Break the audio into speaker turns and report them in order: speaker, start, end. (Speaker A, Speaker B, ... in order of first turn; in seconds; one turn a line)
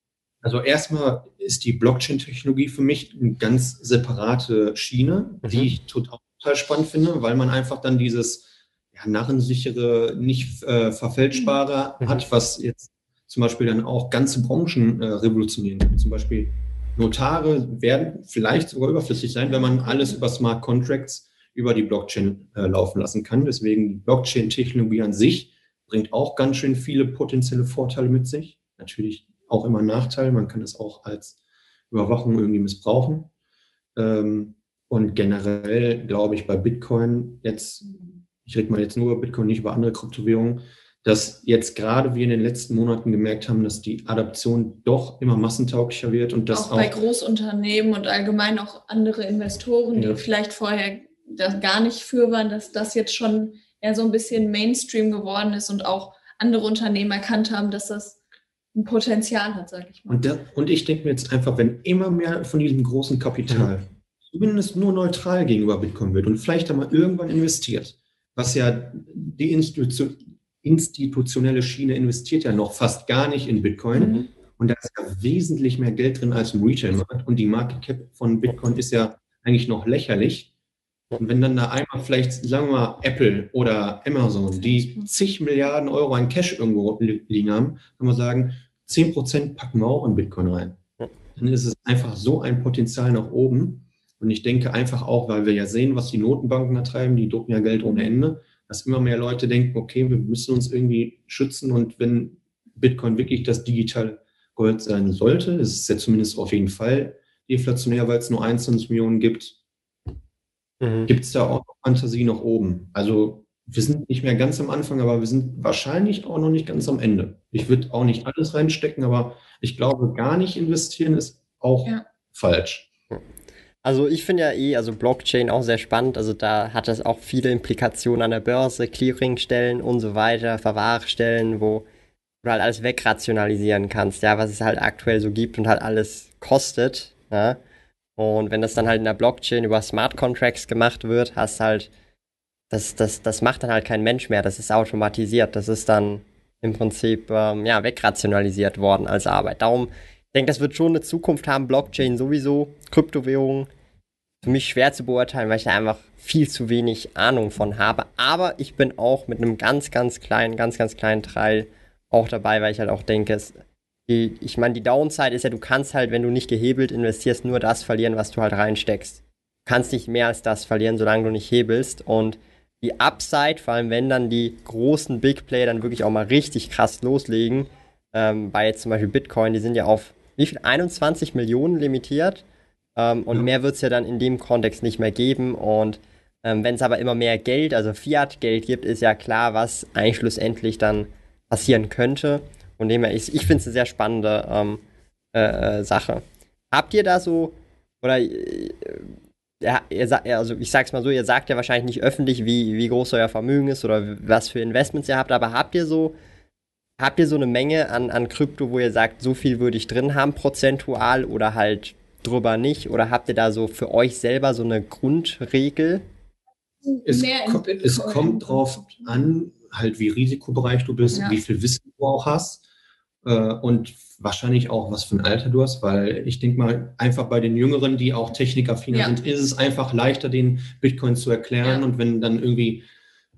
Speaker A: 0.4-31.4
Speaker B: 5.4-5.7
Speaker C: 19.5-20.2
Speaker A: 31.9-33.3
Speaker A: 34.0-37.8
Speaker A: 38.4-47.0
Speaker C: 46.5-58.2
Speaker A: 49.9-50.2
Speaker C: 58.7-60.2
Speaker A: 60.1-80.5
Speaker B: 74.0-74.2
Speaker A: 81.2-90.8
Speaker C: 84.7-85.1
Speaker A: 91.3-109.6
Speaker B: 110.8-111.1
Speaker A: 111.1-122.9
Speaker B: 123.8-131.8
Speaker B: 132.4-137.6
Speaker B: 138.2-141.9
Speaker B: 142.7-153.7
Speaker B: 154.4-182.4
Speaker B: 182.9-194.8
Speaker B: 195.3-206.2
Speaker B: 207.0-216.0
Speaker C: 216.8-219.1
Speaker A: 217.0-222.6
Speaker C: 221.1-221.4
Speaker A: 223.2-232.9